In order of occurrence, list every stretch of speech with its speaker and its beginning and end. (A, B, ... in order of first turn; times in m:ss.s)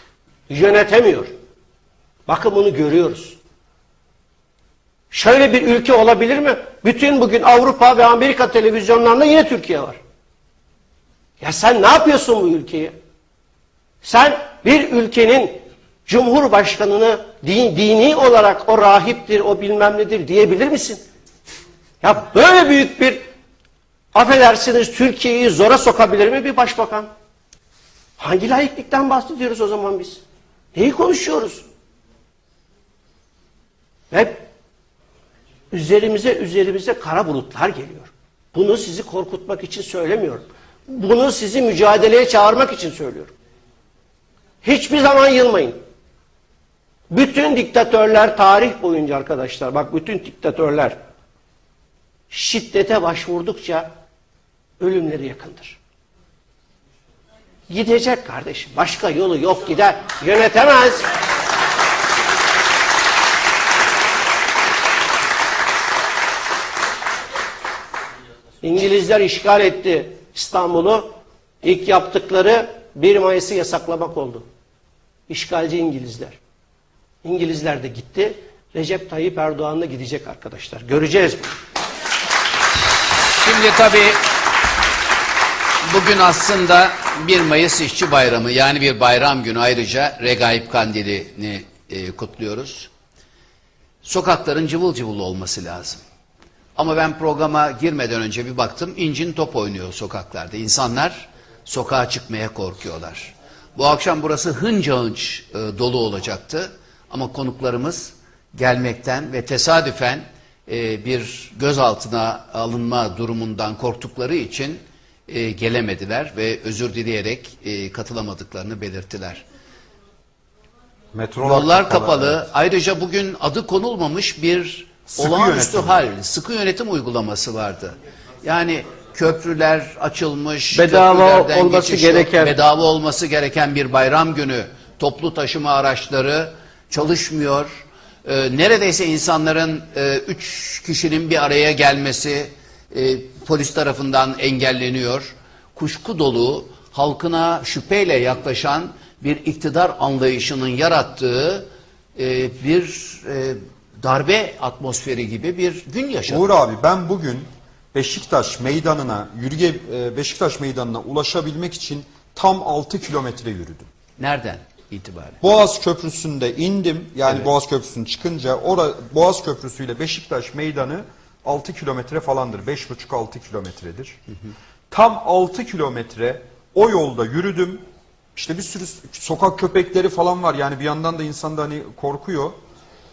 0:00.5-0:01.3 A
0:02.3-0:03.4 A
0:05.1-0:10.0 A
0:11.4-0:12.9 A
0:14.0-0:21.0 A
0:22.0-0:23.2 A
0:24.1-0:27.1 A
0:28.2-0:30.2 A
0:30.7-0:31.6 A
0:34.1-0:34.5 A
0:35.7-0:43.3 A
0:44.6-0:45.8 A
0:47.1-0:51.0 A
0:52.3-0:53.9 A
0:54.8-0:55.8 A
0:57.7-1:01.1 A
1:08.6-1:14.5 A
1:15.3-1:16.4 A
1:17.2-1:21.6 A
1:23.4-1:24.2 B
1:25.8-1:32.9 B
1:34.0-1:36.0 B
1:36.8-1:59.4 B
2:01.1-2:02.4 C
2:01.4-2:36.4 B
2:05.1-2:06.1 C
2:10.7-2:12.6 A
2:36.3-2:43.9 C
2:44.2-2:45.4 B
2:45.4-2:54.2 C
2:54.9-2:57.8 C
2:58.3-3:02.6 C